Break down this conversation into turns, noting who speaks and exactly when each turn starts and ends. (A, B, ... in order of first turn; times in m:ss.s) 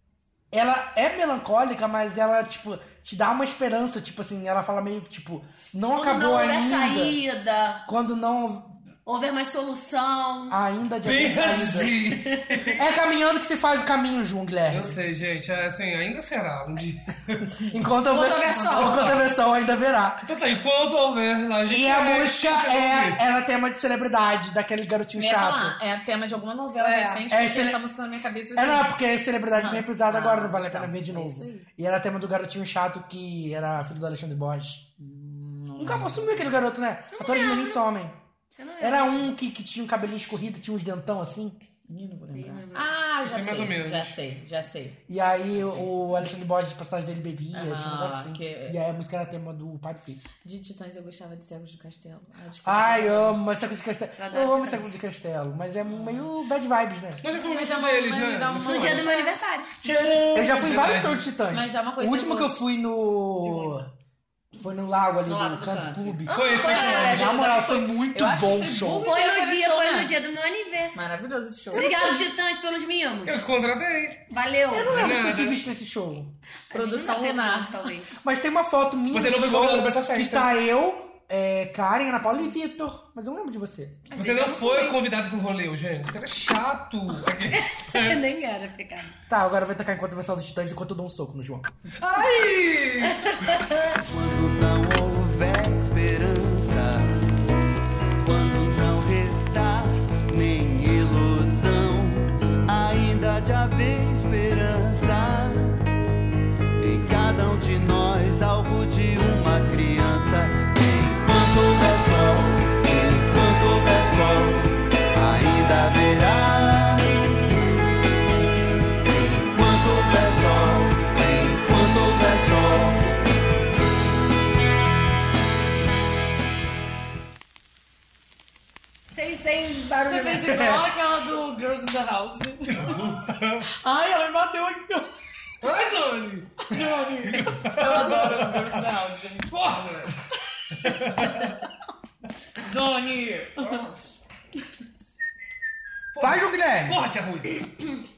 0:00.5-0:07.2 A
0:05.9-0:07.8 B
0:07.8-0:08.8 A
0:09.0-0:10.6 B
0:10.5-0:12.0 A
0:11.0-0:12.8 C
0:12.7-0:15.0 A
0:14.7-0:17.6 C
0:17.7-0:20.2 A
0:18.1-0:19.2 B
0:20.2-0:23.2 C
0:21.7-0:25.8 A
0:25.2-0:28.9 D
0:26.8-0:27.2 B
0:27.3-0:27.8 A
0:28.5-0:34.8 A
0:29.5-0:31.6 D
0:35.0-0:36.3 D
0:35.8-0:38.2 A
0:37.1-0:37.8 B
0:38.6-0:39.3 B
0:38.8-0:41.6 A
0:41.9-0:45.0 D
0:42.3-0:42.9 B
0:43.2-0:44.2 C
0:45.1-0:50.2 A
0:45.6-0:45.9 D
0:47.5-0:48.8 D
0:50.4-0:53.4 D
0:52.6-0:57.2 A
0:54.2-0:55.0 B
0:57.2-0:59.1 C
0:57.3-0:59.3 D
0:58.7-0:59.7 B
0:59.8-1:01.2 C
1:00.3-1:03.9 A
1:01.5-1:02.6 D
1:04.6-1:09.1 A
1:05.2-1:06.2 D
1:06.3-1:07.4 C
1:06.3-1:07.7 B
1:06.7-1:10.1 D
1:09.0-1:11.0 B
1:10.9-1:12.2 D
1:11.7-1:13.4 B
1:13.2-1:14.2 C
1:14.3-1:15.0 B
1:14.7-1:16.3 A
1:14.8-1:15.6 C
1:16.7-1:17.9 D
1:16.7-1:18.1 B
1:18.2-1:24.0 A
1:19.1-1:20.5 C
1:24.1-1:25.0 B
1:24.1-1:28.2 C
1:27.5-1:29.1 B
1:29.3-1:31.7 A
1:32.0-1:33.6 C
1:34.1-1:37.2 E
1:38.2-1:45.8 E
1:46.8-1:57.2 E
1:59.1-2:03.0 E
2:09.1-2:10.6 B
2:10.0-2:13.0 D
2:12.7-2:13.7 C
2:13.7-2:15.1 D
2:15.6-2:18.8 C
2:16.7-2:19.6 D
2:19.5-2:20.2 C
2:20.8-2:21.5 C
2:22.6-2:23.9 D
2:23.6-2:23.9 C
2:26.1-2:27.7 C
2:26.2-2:27.0 A